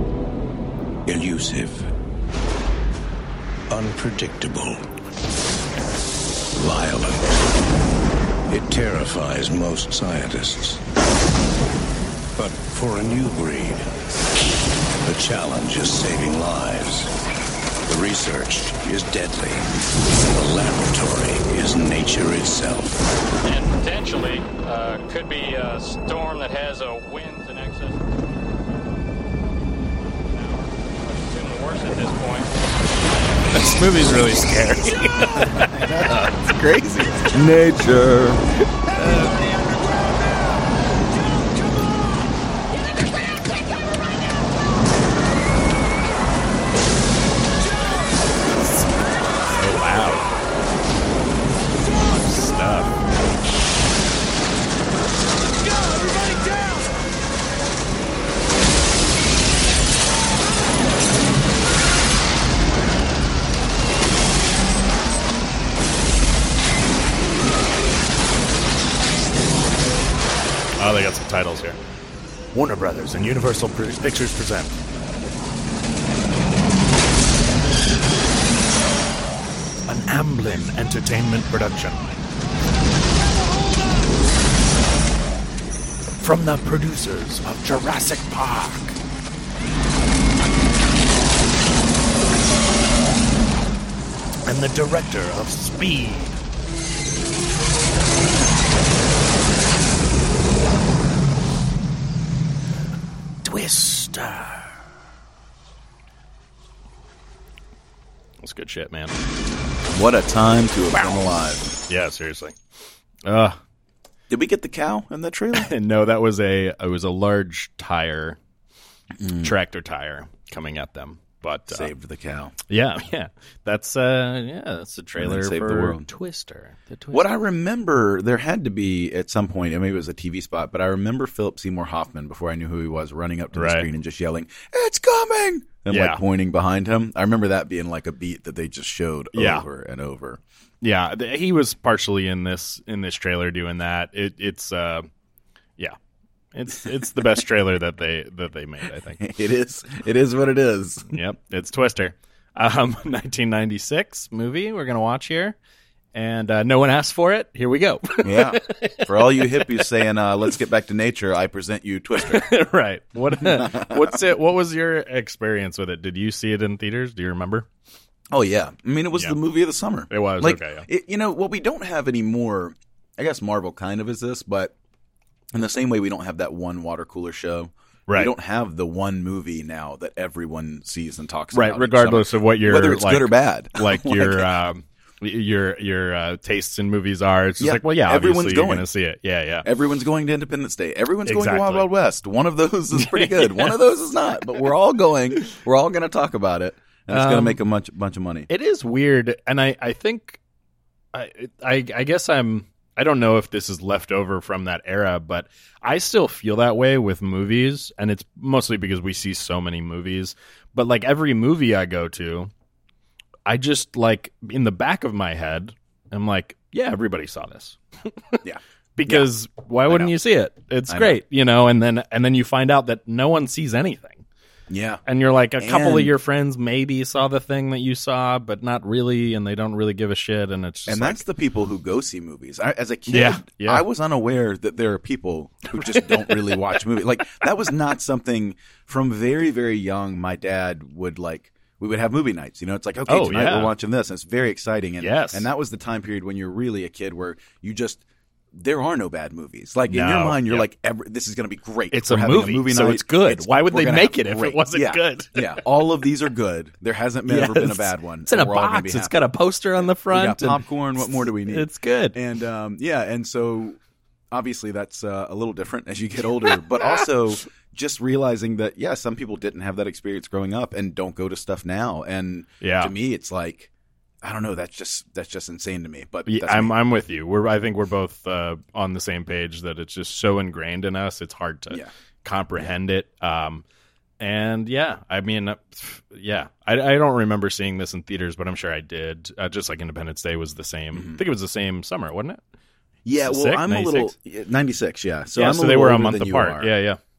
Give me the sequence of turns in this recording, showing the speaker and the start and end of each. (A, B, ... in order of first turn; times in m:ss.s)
0:01.1-0:01.9 A
0:03.7-0:04.9 A
0:06.5-0:07.4 A
0:08.5-0:10.8 A
0:12.4-0:14.0 A
0:15.0-0:17.1 A
0:17.9-0:23.1 A
0:23.4-0:29.0 B
0:30.0-0:33.0 B
0:33.5-0:36.2 C
0:35.5-0:38.5 D
0:39.0-0:39.4 C
0:49.6-0:50.3 C
0:52.0-0:52.9 C
1:10.8-1:11.8 C
1:12.5-1:14.7 C
1:19.9-1:22.0 C
1:26.2-1:28.9 C
1:34.5-1:36.3 C
1:43.4-1:44.5 C
1:48.4-1:49.2 C
1:49.9-1:51.8 D
1:50.9-1:51.2 C
1:51.9-1:52.6 C
1:53.2-1:53.6 C
1:54.3-1:55.7 D
1:55.5-1:58.4 C
1:59.2-1:59.6 D
1:59.4-2:01.9 C
2:01.7-2:02.6 D
2:02.7-2:07.3 C
2:05.2-2:06.1 D
2:07.1-2:20.4 D
2:13.6-2:13.9 C
2:15.9-2:16.2 C
2:19.3-2:19.7 C
2:20.8-2:25.1 C
2:26.5-2:29.2 C
2:29.2-2:31.1 D
2:31.1-2:35.6 C
2:36.1-2:39.8 C
2:38.2-2:42.5 D
2:42.2-2:47.7 C
2:43.3-2:44.3 D
2:48.3-2:54.8 D
2:50.1-2:50.9 C
2:55.5-3:04.5 D
3:01.5-3:09.7 C
3:07.6-3:08.9 D
3:09.6-3:18.5 D
3:11.3-3:11.9 C
3:12.9-3:13.8 C
3:17.1-3:17.6 C
3:18.5-3:20.4 C
3:21.1-3:32.5 C
3:33.5-3:38.4 C
3:38.4-3:39.3 D
3:39.0-3:44.2 C
3:39.9-3:40.2 D
3:40.9-3:41.2 D
3:44.7-3:45.0 D
3:45.1-3:51.2 C
3:45.6-3:46.2 D
3:50.9-4:23.8 D
3:53.1-3:53.8 C
3:55.8-3:56.6 C
4:03.1-4:03.7 C
4:05.0-4:05.5 C
4:09.9-4:10.7 C
4:11.9-4:15.6 C
4:17.3-4:22.2 C
4:24.3-4:33.7 D
4:26.7-4:27.0 C
4:32.6-4:32.9 C
4:34.2-4:36.8 D
4:36.3-4:43.6 C
4:44.2-4:52.4 C
4:50.9-4:51.2 D
4:53.0-4:56.7 D
4:53.2-4:54.1 C
4:55.4-4:57.0 C